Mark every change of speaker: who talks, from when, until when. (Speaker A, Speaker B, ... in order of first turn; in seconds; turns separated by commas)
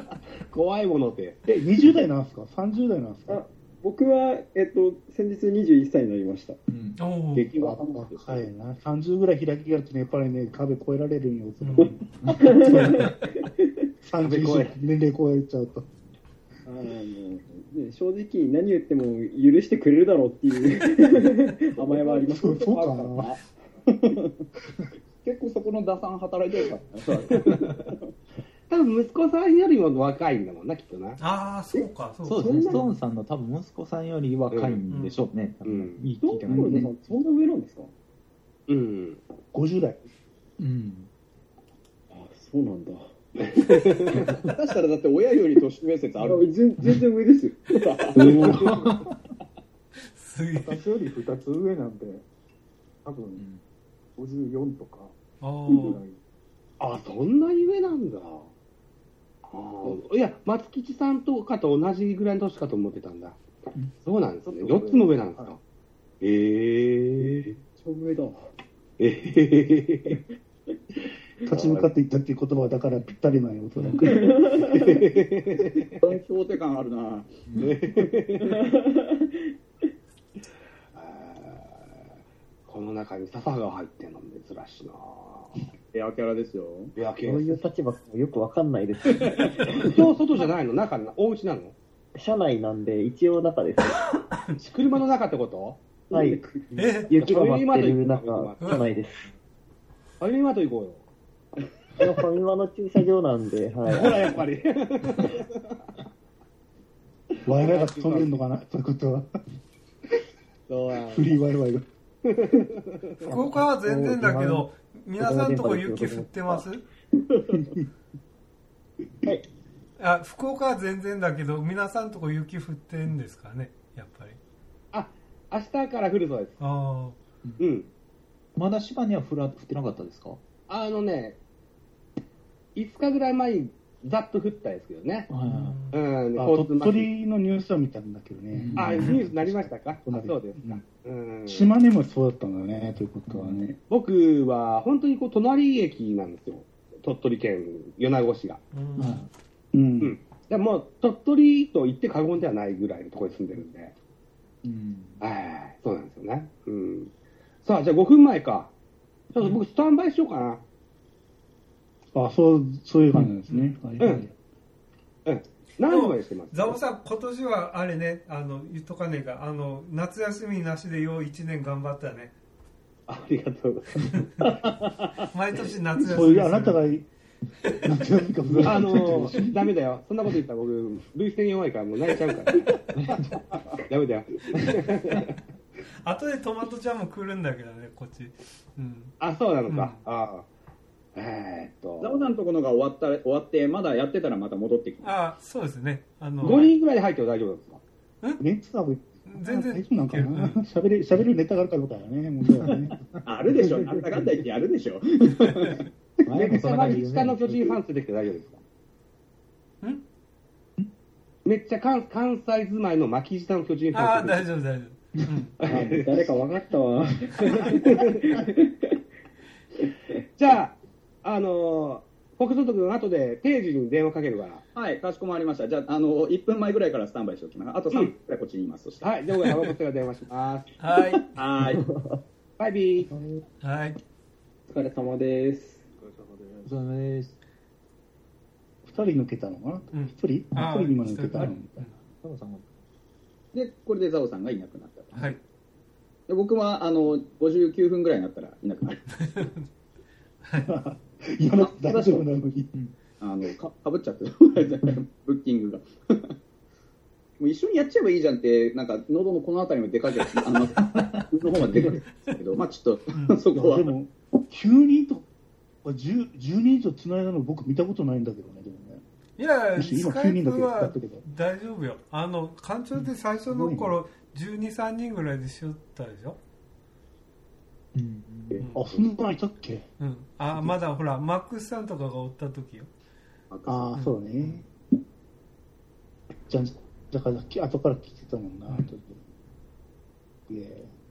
Speaker A: 0.5-1.4, Speaker B: 1.4-3.4, Speaker C: 3.3-6.6, Speaker D: 6.7-7.0, Speaker E: 7.0-7.5, Speaker F: 7.3-8.4, Speaker B: 7.6-13.2, Speaker E: 11.6-11.9, Speaker D: 12.2-13.1, Speaker C: 12.3-13.7, Speaker B: 14.0-15.9, Speaker A: 14.2-14.8, Speaker C: 16.6-23.1, Speaker F: 21.8-24.2, Speaker B: 22.1-23.3, Speaker F: 25.2-27.9, Speaker A: 28.7-31.2, Speaker E: 31.2-32.6, Speaker D: 32.2-36.9, Speaker A: 32.4-32.8, Speaker A: 34.5-34.8, Speaker E: 34.9-35.2, Speaker A: 35.6-36.1, Speaker C: 36.2-37.9, Speaker A: 38.7-39.2, Speaker B: 39.5-40.0, Speaker D: 40.6-41.1, Speaker C: 42.1-43.1, Speaker A: 43.4-44.3, Speaker F: 44.4-46.5, Speaker C: 46.2-48.6, Speaker F: 47.9-48.4, Speaker D: 48.1-49.1, Speaker A: 48.2-48.8, Speaker E: 50.1-50.8, Speaker G: 50.6-52.2, Speaker G: 53.0-53.4, Speaker G: 54.2-55.1, Speaker E: 55.4-56.0, Speaker G: 55.7-56.2, Speaker A: 56.8-58.5, Speaker A: 59.5-63.4, Speaker A: 64.0-65.6, Speaker G: 64.4-65.4, Speaker A: 66.2-67.5, Speaker C: 67.5-68.5, Speaker A: 69.0-70.2, Speaker B: 71.5-74.4, Speaker A: 71.5-71.9, Speaker C: 74.0-74.9, Speaker A: 74.5-76.0, Speaker F: 76.0-77.4, Speaker D: 77.5-77.8, Speaker A: 77.6-78.5, Speaker C: 78.4-79.5, Speaker A: 80.9-82.0, Speaker A: 82.7-85.6, Speaker F: 85.9-86.9, Speaker A: 87.0-87.6, Speaker H: 87.2-89.9, Speaker A: 89.1-91.7, Speaker H: 92.1-94.0, Speaker A: 94.6-95.8, Speaker H: 96.1-96.4, Speaker C: 96.1-96.9, Speaker E: 96.8-97.1, Speaker H: 97.0-99.3, Speaker A: 97.1-99.0, Speaker E: 98.6-98.9, Speaker A: 100.2-101.0, Speaker H: 102.0-104.4, Speaker A: 103.8-105.5, Speaker B: 107.5-109.3, Speaker A: 107.5-108.3, Speaker A: 110.7-111.3, Speaker B: 111.1-111.8, Speaker A: 112.2-113.0, Speaker H: 113.2-116.6, Speaker E: 113.2-116.8, Speaker E: 120.0-124.4, Speaker A: 124.9-126.6, Speaker E: 126.6-127.2, Speaker A: 127.6-127.9, Speaker D: 128.6-130.4, Speaker A: 130.7-131.4, Speaker A: 132.7-135.3, Speaker D: 135.3-135.8, Speaker E: 135.5-136.0, Speaker A: 135.9-137.1, Speaker B: 136.4-140.8, Speaker D: 138.5-139.2, Speaker A: 138.8-141.7, Speaker B: 141.5-143.8, Speaker D: 143.3-143.6, Speaker A: 143.9-148.6, Speaker E: 148.7-149.2, Speaker D: 149.0-149.3, Speaker B: 149.7-150.2, Speaker A: 150.0-153.9, Speaker D: 154.6-155.2, Speaker A: 155.2-157.1, Speaker A: 157.6-158.7, Speaker A: 159.3-160.6, Speaker B: 162.1-164.3, Speaker E: 163.5-163.7, Speaker A: 165.2-166.8, Speaker E: 165.9-172.3, Speaker A: 173.1-174.2, Speaker E: 175.3-176.8, Speaker B: 176.0-177.1, Speaker B: 177.8-179.7, Speaker D: 178.5-179.0, Speaker A: 178.6-182.7, Speaker D: 182.9-183.2, Speaker A: 183.9-185.3, Speaker E: 186.0-189.1, Speaker A: 189.2-190.4, Speaker E: 189.7-190.0, Speaker A: 191.1-192.2, Speaker F: 192.0-195.1, Speaker E: 195.0-196.7, Speaker A: 196.4-197.8, Speaker B: 198.4-203.0, Speaker E: 199.3-200.6, Speaker D: 202.6-203.2, Speaker F: 203.2-205.8, Speaker D: 206.2-207.8, Speaker A: 206.3-208.6, Speaker A: 211.4-214.4, Speaker E: 213.9-215.6, Speaker A: 215.6-216.4, Speaker C: 215.6-218.9, Speaker A: 217.5-218.2, Speaker A: 220.4-224.6, Speaker F: 224.7-229.0, Speaker A: 229.0-230.7, Speaker E: 230.8-231.4, Speaker F: 231.3-231.8, Speaker H: 231.7-232.1, Speaker A: 232.6-233.1, Speaker H: 233.1-233.4, Speaker E: 233.6-234.0, Speaker C: 234.7-235.8, Speaker G: 235.9-236.8, Speaker D: 236.7-237.3, Speaker B: 238.8-241.8, Speaker E: 239.9-241.9, Speaker D: 242.2-242.7, Speaker F: 243.5-245.3, Speaker F: 246.3-249.0, Speaker E: 249.1-249.7, Speaker E: 250.4-250.7, Speaker B: 250.6-252.7, Speaker F: 251.6-252.2, Speaker F: 253.2-256.3, Speaker F: 257.4-263.9, Speaker D: 260.8-261.3, Speaker E: 263.1-263.4, Speaker B: 263.5-265.2, Speaker B: 265.8-269.0, Speaker E: 269.4-276.4, Speaker B: 269.8-271.2, Speaker B: 273.0-274.0, Speaker D: 277.9-278.7, Speaker B: 278.7-279.9, Speaker E: 280.0-282.9, Speaker B: 280.5-280.7, Speaker F: 283.5-283.9, Speaker B: 283.6-284.6, Speaker E: 283.9-284.6, Speaker B: 286.5-289.2, Speaker B: 290.5-290.9